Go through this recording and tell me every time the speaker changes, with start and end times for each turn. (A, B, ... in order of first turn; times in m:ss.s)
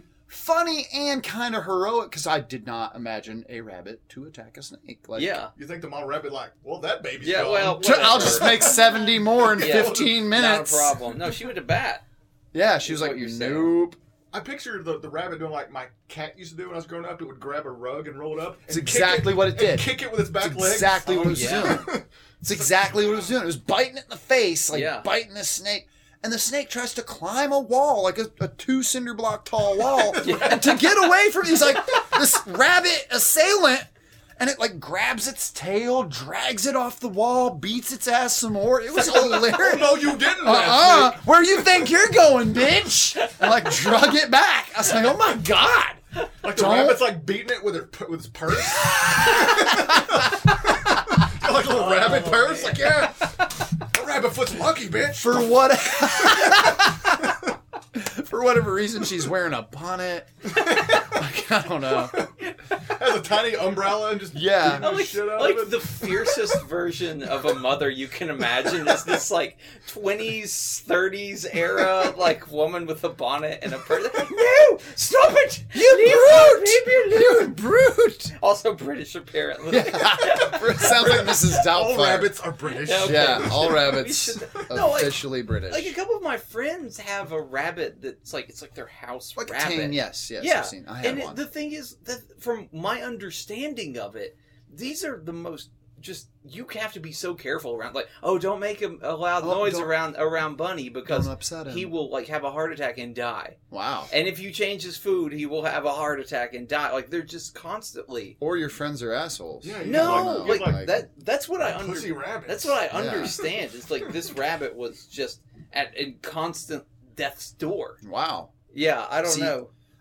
0:00.3-0:05.4 A
0:05.2-0:05.5 B
0:05.6-0:10.3 C
0:07.2-0:08.7 B
0:07.8-0:11.0 A
0:09.6-0:12.0 B
0:12.5-0:14.0 A
0:12.8-0:13.8 B
0:14.3-0:23.1 C
0:18.7-0:21.9 A
0:21.3-0:21.8 B
0:22.4-0:47.1 A
0:24.7-0:25.1 B
0:29.8-0:30.9 C
0:30.2-0:30.7 B
0:39.0-0:41.2 C
0:46.4-0:55.5 C
0:49.4-0:49.7 A
0:51.7-0:53.1 B
0:55.1-0:57.3 A
0:57.9-1:02.2 A
1:00.6-1:01.0 C
1:01.9-1:06.6 C
1:04.3-1:04.9 A
1:04.7-1:17.5 B
1:15.7-1:18.3 A
1:18.4-1:20.9 B
1:19.7-1:22.4 A
1:20.7-1:24.0 C
1:22.8-1:43.6 B
1:23.0-1:25.9 A
1:29.4-1:31.4 A
1:39.4-1:39.9 A
1:41.1-1:41.9 A
1:43.7-1:44.1 A
1:44.1-1:48.4 B
1:48.4-1:50.9 A
1:49.6-1:51.0 C
1:49.8-1:58.0 B
1:51.6-1:52.9 C
1:52.9-1:53.4 A
1:58.0-1:58.5 A
1:58.7-1:59.7 B
1:59.2-1:59.6 A